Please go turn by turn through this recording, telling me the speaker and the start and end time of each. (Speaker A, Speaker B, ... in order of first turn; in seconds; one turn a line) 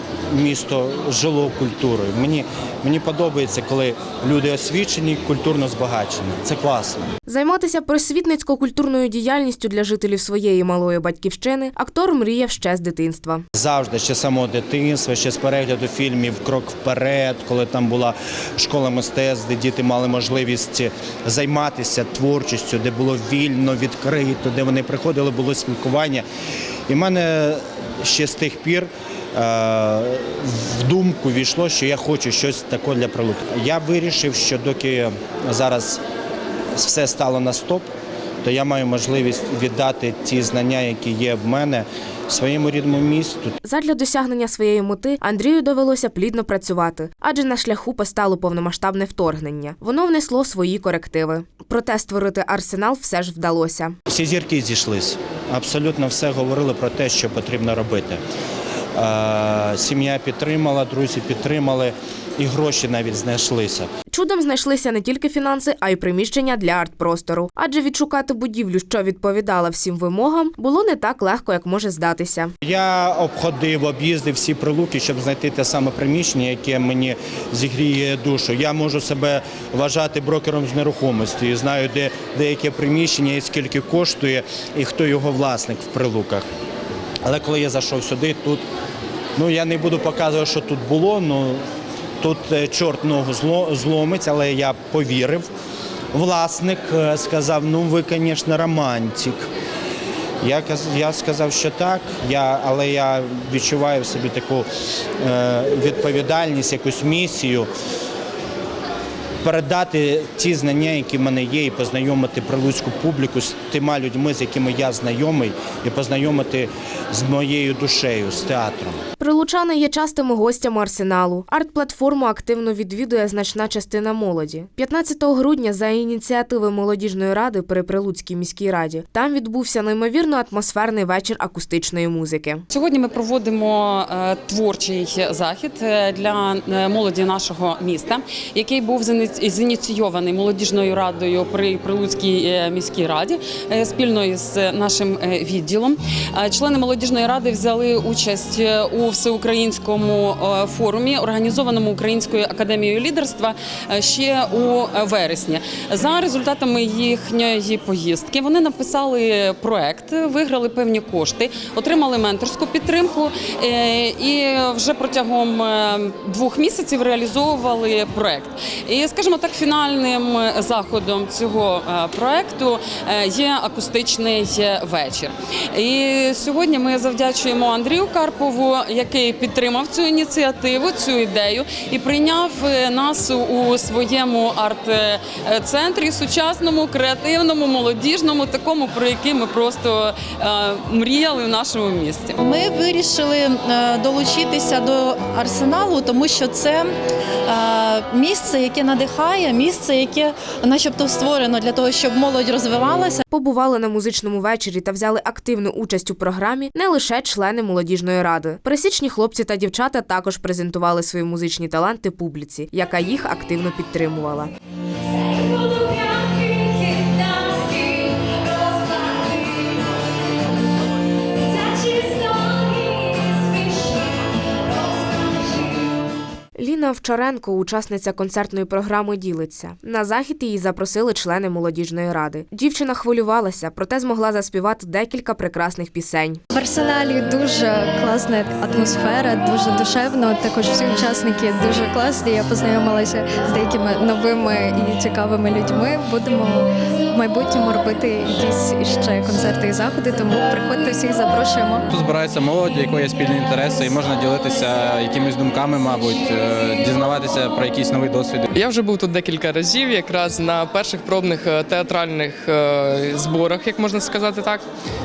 Speaker A: 0.3-7.1
Speaker B: 7.3-13.4
Speaker A: 13.6-26.2
Speaker A: 26.9-36.0
Speaker A: 36.8-37.9
Speaker A: 38.4-43.5
Speaker B: 43.6-54.0
Speaker A: 54.1-58.2
Speaker A: 59.0-63.9
Speaker B: 64.1-72.5
Speaker A: 72.6-86.5
Speaker A: 87.2-88.6
Speaker A: 89.4-91.6
Speaker A: 92.2-95.5
Speaker A: 96.1-99.5
Speaker A: 100.4-104.7
Speaker A: 105.2-107.7
Speaker A: 109.4-119.0
Speaker B: 119.2-132.7
Speaker C: 132.7-192.4
Speaker D: 192.4-196.9
Speaker D: 197.5-203.2
Speaker B: 203.3-214.5
Speaker D: 215.2-219.7
Speaker D: 221.5-224.0
Speaker D: 224.7-225.8
Speaker B: 226.6-236.4
Speaker E: 236.5-251.9
Speaker F: 251.9-258.4
Speaker G: 258.5-264.6